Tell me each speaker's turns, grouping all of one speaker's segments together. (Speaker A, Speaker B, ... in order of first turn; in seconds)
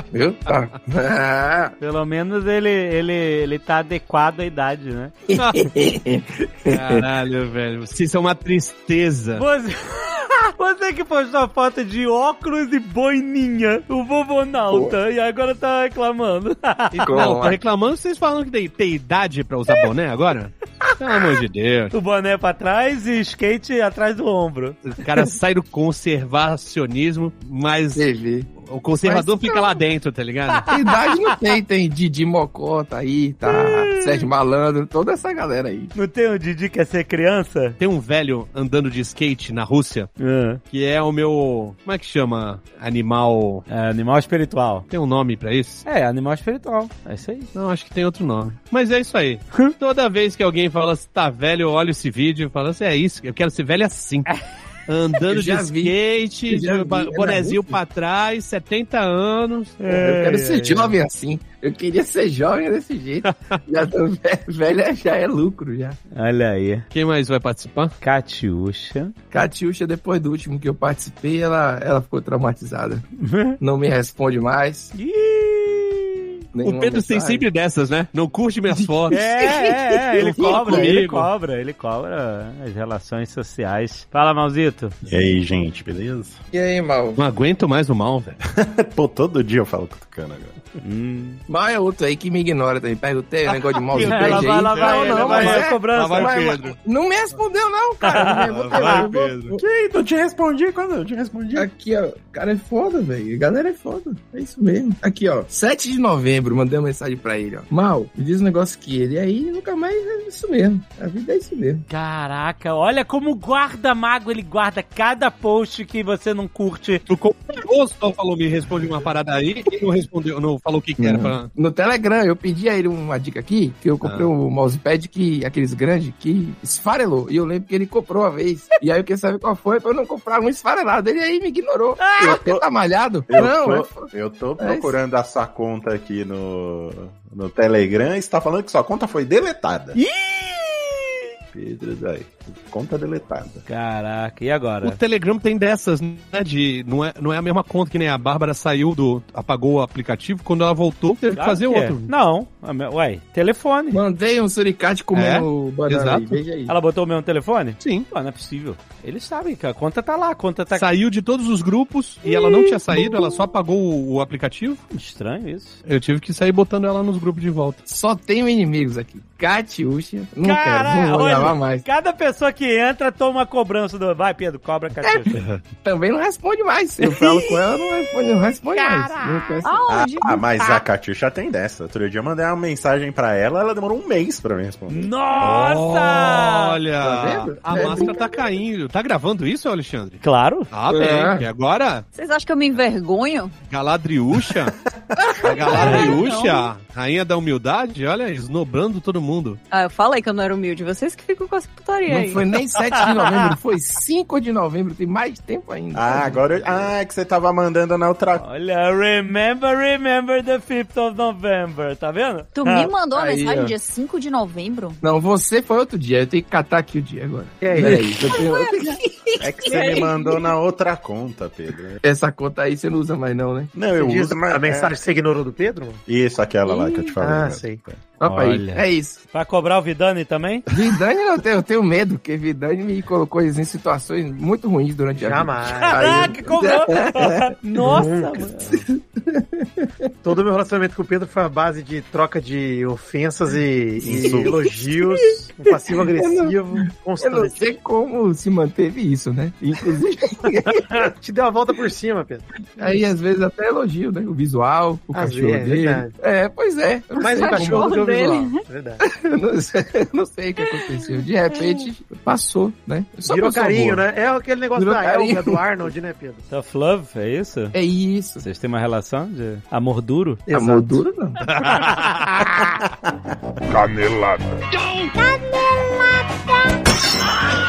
Speaker A: 0.1-1.7, 5.3-7.0, 17.1-17.6, 27.9-29.8, 30.7-35.9, 55.2-57.8, 59.9-66.0, 69.3-73.0, 73.6-74.9, 76.5-77.4, 78.7-81.0, 86.5-87.2, 91.5-99.6, 101.5-111.8, 121.0-134.9, 153.9-156.7, 167.8-171.8, 175.8-179.8, 187.0-188.3, 190.9-191.5, 195.4-196.1, 202.1-206.9, 213.1-213.8, 215.0-219.0, 222.0-223.7, 228.2-229.2, 230.7-238.0, 238.7-239.9, 244.0-244.6, 246.0-251.1, 252.8-258.0, 259.0-264.1, 264.7-265.7, 267.7-268.4, 270.5-271.4
Speaker B: 1.8-5.1, 9.3-17.3, 21.9-24.8, 33.5-34.2, 35.9-37.8, 40.2-40.6, 43.7-44.9, 45.8-47.5, 59.8-60.9, 66.1-66.8, 68.0-69.1, 73.2-73.6, 74.9-76.2, 79.1-84.9, 90.8-91.4, 94.0-96.5, 98.0-99.0, 111.9-117.0, 132.0-132.4, 139.9-141.2, 143.7-145.0, 151.3-154.0, 156.7-160.9, 162.2-163.3, 164.9-165.8, 170.4-175.4, 177.0-179.7, 184.9-186.8, 190.2-190.7, 195.8-196.2, 203.0-203.5, 208.3-212.9, 228.2-230.7, 235.7-238.7, 266.5-267.7, 268.4-270.4, 271.5-272.2
Speaker C: 5.3-5.7, 6.7-9.4, 16.9-21.9, 24.8-28.0, 28.6-30.7, 37.8-40.1, 40.7-43.6, 44.9-45.8, 47.5-54.3, 54.9-59.9, 63.2-63.6, 66.9-67.9, 76.6-79.2, 80.2-81.3, 87.2-88.4, 93.9-96.7, 98.5-99.5, 117.1-121.5, 124.0-124.3, 144.8-152.1, 155.1-156.4, 157.8-158.1, 160.7-164.8, 165.8-167.8, 185.4-192.0, 193.7-194.7, 195.4-199.6
Speaker D: 85.0-86.4, 88.5-90.5, 99.5-101.7, 132.2-132.6, 133.3-140.0, 141.5-143.6, 179.9-185.1, 205.9-208.4, 219.4-222.0, 223.7-225.0, 226.1-228.0, 244.0-244.9
Speaker E: 179.6-180.4, 192.1-193.6, 195.8-196.7, 199.7-202.4, 212.6-215.0, 218.4-219.0, 219.6-220.3, 257.3-258.6
Speaker F: 217.6-218.4, 223.9-226.0, 227.2-227.8, 235.2-236.3, 237.8-238.7, 240.2-247.8, 250.8-252.4, 255.1-256.1, 257.1-259.0, 263.2-266.4, 270.5-271.1